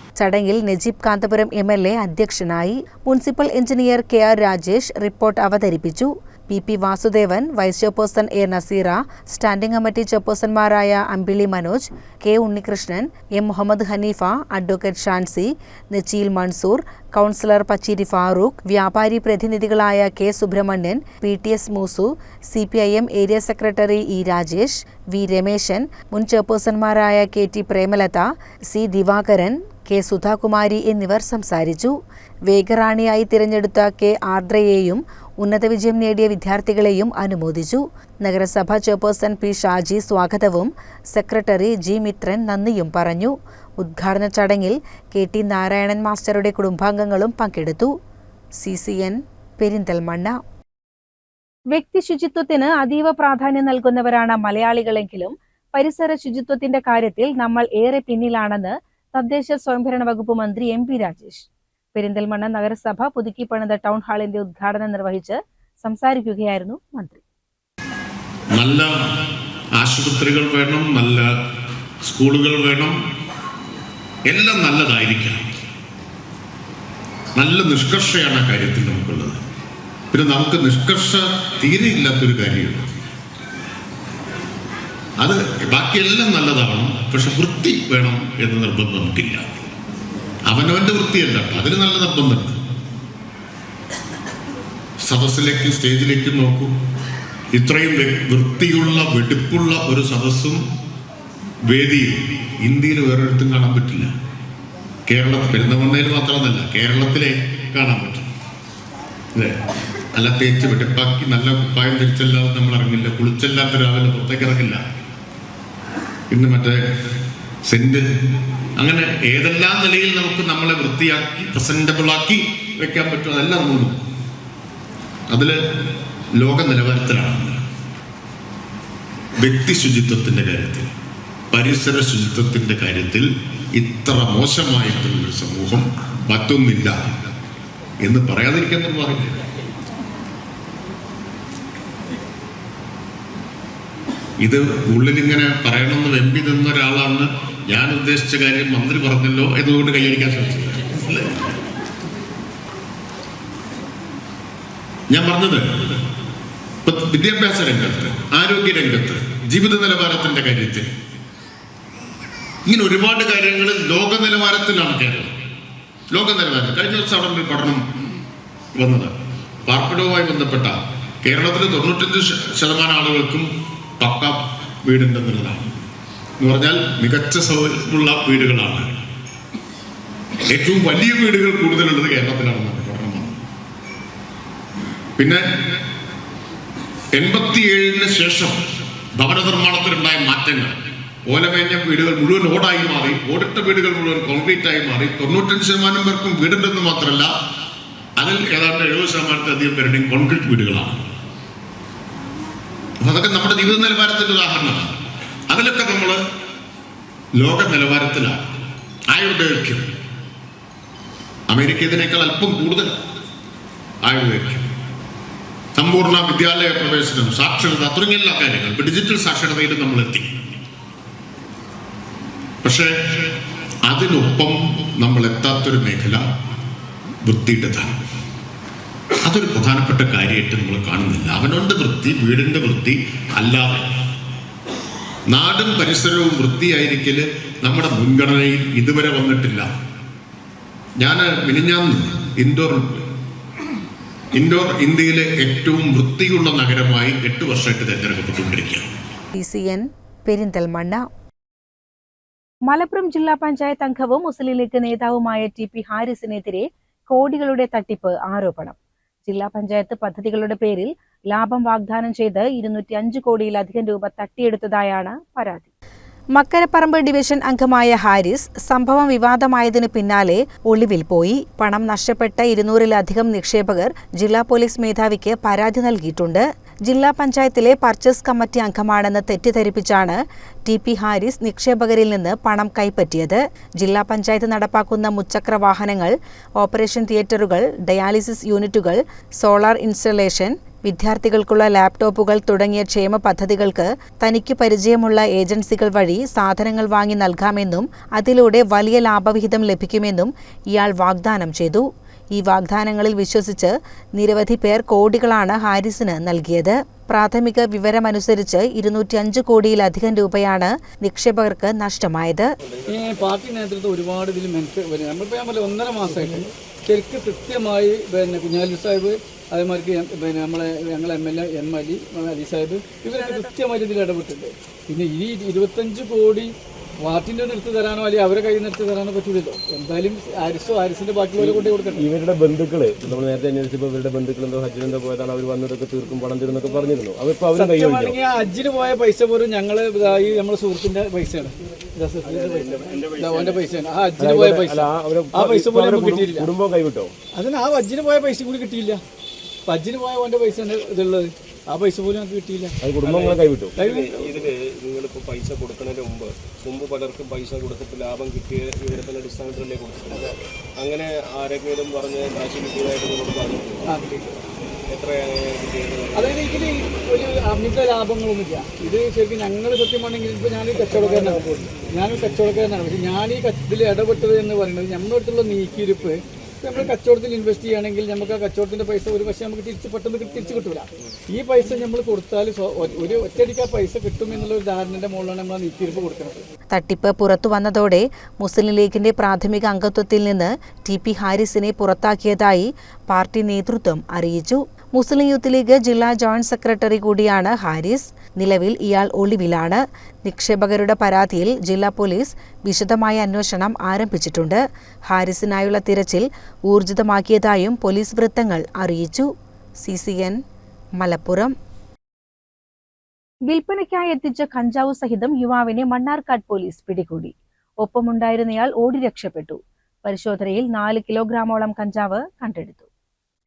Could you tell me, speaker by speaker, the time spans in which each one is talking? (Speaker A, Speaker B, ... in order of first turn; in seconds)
Speaker A: 0.2-48.0, 48.6-50.4, 51.7-67.2, 249.3-251.1, 252.7-265.7, 266.4-312.5, 386.7-409.3, 409.8-410.4, 411.0-411.6, 413.5-422.9
Speaker B: 68.5-68.9, 69.8-71.3, 72.0-73.0, 74.3-75.5, 77.4-79.4, 80.1-82.9, 85.2-89.7, 90.5-92.5, 95.0-96.7, 97.5-100.6, 101.7-104.1, 105.1-108.3, 110.1-114.8, 116.3-116.8, 117.7-118.0, 118.8-124.0, 125.3-125.6, 126.4-127.6, 129.4-130.9, 131.5-133.2, 133.8-136.9, 138.0-139.4, 144.4-151.4, 155.1-155.7, 156.8-160.9, 162.7-165.3, 166.1-167.8, 168.8-169.1, 169.7-170.8, 171.3-173.5, 174.0-175.7, 176.4-178.9, 180.5-183.4, 185.2-185.4, 187.2-188.6, 189.2-190.7, 191.3-197.3, 198.2-201.0, 203.0-204.9, 205.5-206.2, 207.4-208.4, 209.1-209.8, 211.5-212.9, 214.1-214.7, 215.8-220.3, 222.6-223.3, 223.9-226.2, 227.2-227.9, 229.2-233.9, 235.3-239.7, 241.0-243.0, 244.3-248.9
Speaker C: 312.6-313.4, 342.2-343.7, 353.0-363.9, 364.9-366.7
Speaker D: 312.9-326.5, 327.1-332.0, 337.5-346.5, 347.4-349.0, 349.7-352.8, 353.8-354.1, 363.9-364.3, 366.1-386.4
Speaker E: 331.4-338.2, 344.2-347.1, 352.8-353.7